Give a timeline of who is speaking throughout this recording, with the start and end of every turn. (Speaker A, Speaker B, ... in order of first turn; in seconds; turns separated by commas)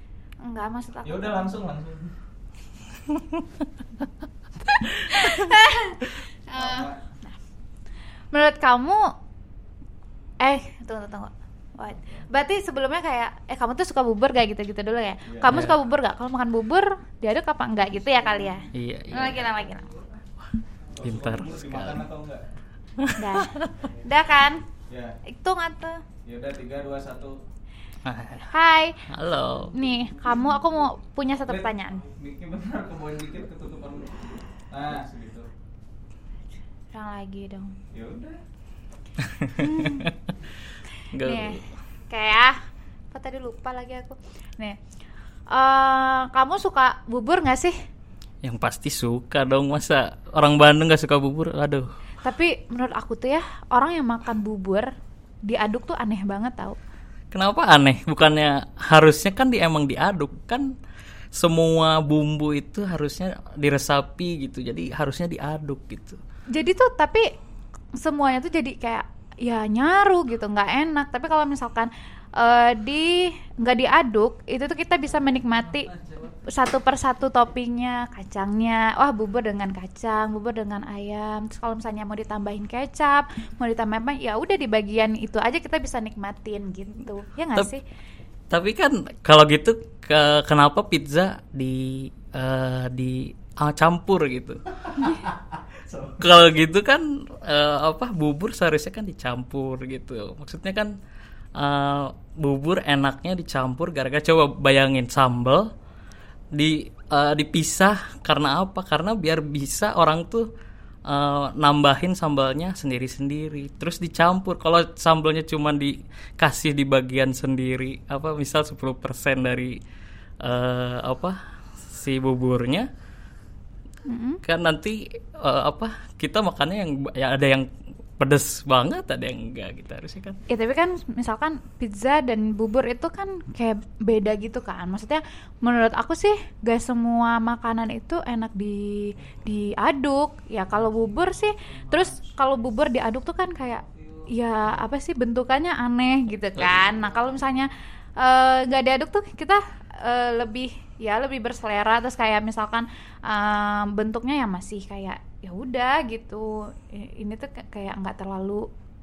Speaker A: 0.4-1.5, Speaker B: 1.0-2.1, Speaker A: 4.7-7.3, Speaker B: 6.5-7.0, Speaker A: 8.3-9.0, Speaker A: 10.4-19.9, Speaker B: 15.3-15.6, Speaker C: 15.5-15.8, Speaker B: 18.0-18.6, Speaker C: 18.7-19.3, Speaker B: 19.1-19.6, Speaker B: 20.9-22.4, Speaker C: 21.0-22.0, Speaker C: 23.0-23.9, Speaker A: 23.2-24.6, Speaker B: 24.9-25.1, Speaker A: 25.3-26.0, Speaker B: 26.2-27.4, Speaker C: 28.0-28.6, Speaker A: 28.5-29.0, Speaker C: 29.1-29.7, Speaker A: 29.7-32.0, Speaker B: 31.4-35.5, Speaker A: 36.9-37.8, Speaker B: 37.9-38.4, Speaker C: 39.2-40.2, Speaker A: 39.5-40.1, Speaker C: 41.1-41.6, Speaker A: 41.2-42.5, Speaker A: 43.1-44.8, Speaker A: 45.5-47.7, Speaker C: 48.4-51.9, Speaker A: 52.2-54.9, Speaker A: 55.5-56.8, Speaker C: 57.3-60.7, Speaker C: 61.4-66.2, Speaker A: 66.5-67.2, Speaker A: 68.0-87.8, Speaker C: 88.5-95.1, Speaker B: 95.0-96.2, Speaker C: 96.2-100.9, Speaker C: 101.6-105.7, Speaker C: 106.5-110.5, Speaker C: 111.1-119.8, Speaker C: 120.4-122.9, Speaker A: 124.0-124.4, Speaker C: 124.4-127.7, Speaker C: 128.2-130.4, Speaker A: 130.5-158.7, Speaker B: 140.8-142.5, Speaker B: 143.8-144.3, Speaker B: 146.8-147.4